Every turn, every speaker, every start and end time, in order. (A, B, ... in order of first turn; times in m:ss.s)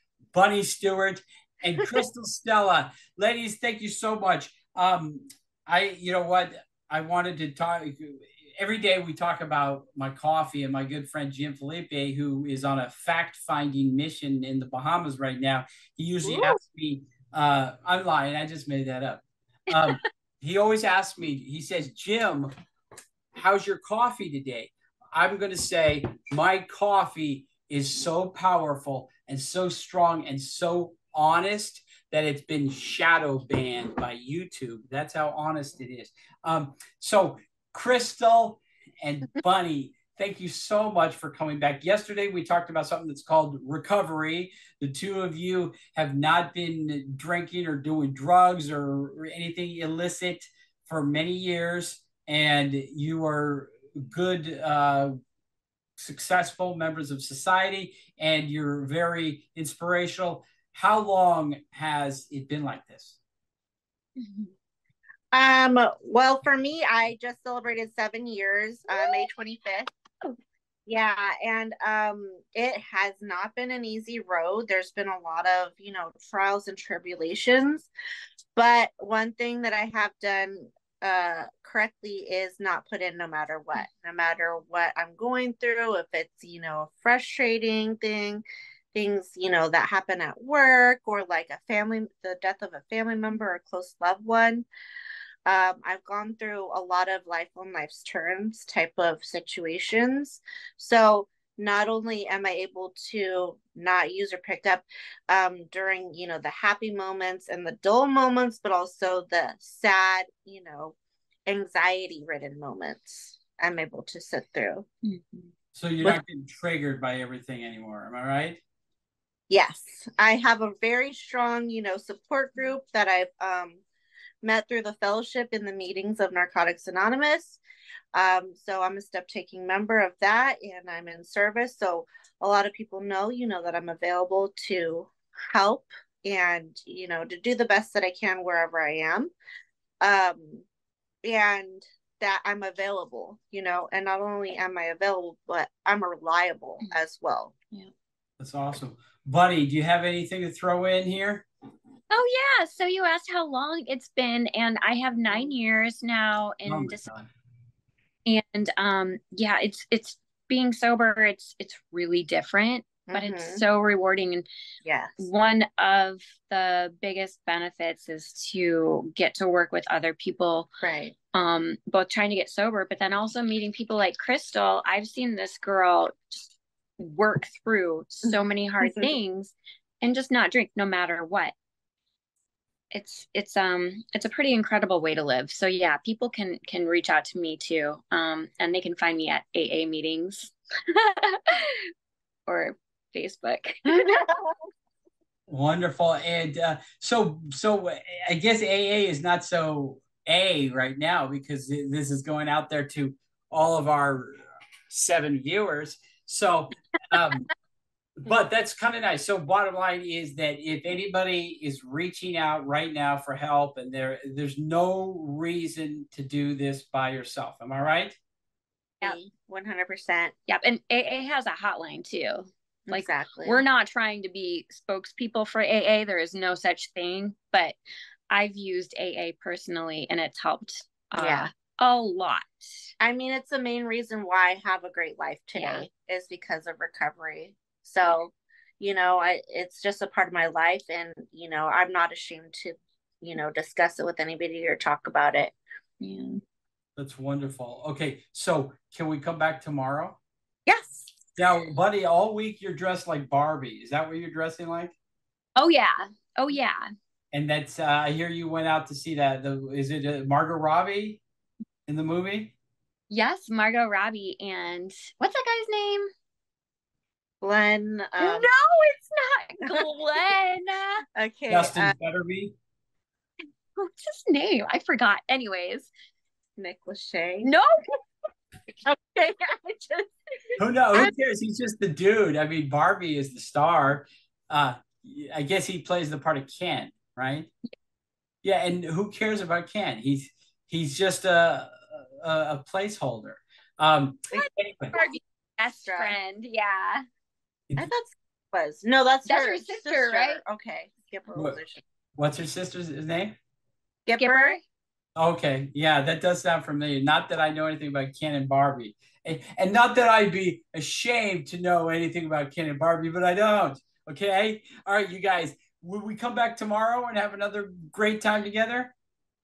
0:00.3-0:22.5 A
0:23.3-0:55.1 A
0:56.0-1:03.2 A
1:04.2-1:04.5 B
1:05.3-1:09.9 C
1:08.9-1:09.3 B
1:10.9-1:17.9 C
1:18.6-1:34.7 C
1:35.4-1:54.8 C
1:55.0-1:55.5 B
1:55.7-1:58.6 A
1:59.5-2:03.8 C
2:04.4-2:07.6 C
2:08.1-2:19.3 C
2:20.0-2:20.6 C
2:21.2-2:27.5 C
2:28.4-2:31.4 A
2:32.1-2:37.1 B
2:36.6-2:37.3 A
2:38.2-2:44.5 B
2:43.1-2:43.6 C
2:44.8-2:45.2 C
2:45.2-2:50.7 B
2:50.8-2:51.1 C
2:51.3-2:56.4 B
2:57.0-3:01.5 B
2:58.2-2:59.1 C
3:02.9-3:11.8 B
3:12.5-3:14.2 B
3:13.9-3:14.5 C
3:15.5-3:27.5 A
3:28.2-3:38.2 A
3:39.0-3:40.3 C
3:40.5-3:47.8 B
3:42.9-3:43.6 C
3:48.3-3:52.9 B
3:51.2-3:51.5 C
3:53.0-4:05.5 C
3:55.6-3:55.8 B
4:06.0-4:06.4 B
4:07.0-4:10.2 A
4:10.6-4:11.1 C
4:11.4-4:14.9 A
4:15.6-4:16.8 B
4:17.3-4:21.2 A
4:21.9-4:22.5 A
4:23.1-4:26.1 B
4:27.4-4:28.5 C
4:28.2-4:31.0 B
4:31.2-4:31.9 C
4:31.5-4:32.5 A
4:33.8-4:35.9 B
4:36.6-4:37.5 C
4:37.4-4:38.0 B
4:38.8-4:41.1 C
4:40.6-4:47.5 A
4:48.4-4:54.9 A
4:54.3-4:55.1 C
4:54.9-4:57.0 B
4:55.8-4:56.1 C
4:57.8-5:01.8 C
4:59.2-5:00.4 B
5:02.2-5:03.4 A
5:04.0-5:04.6 C
5:04.2-5:04.6 B
5:05.2-5:18.9 A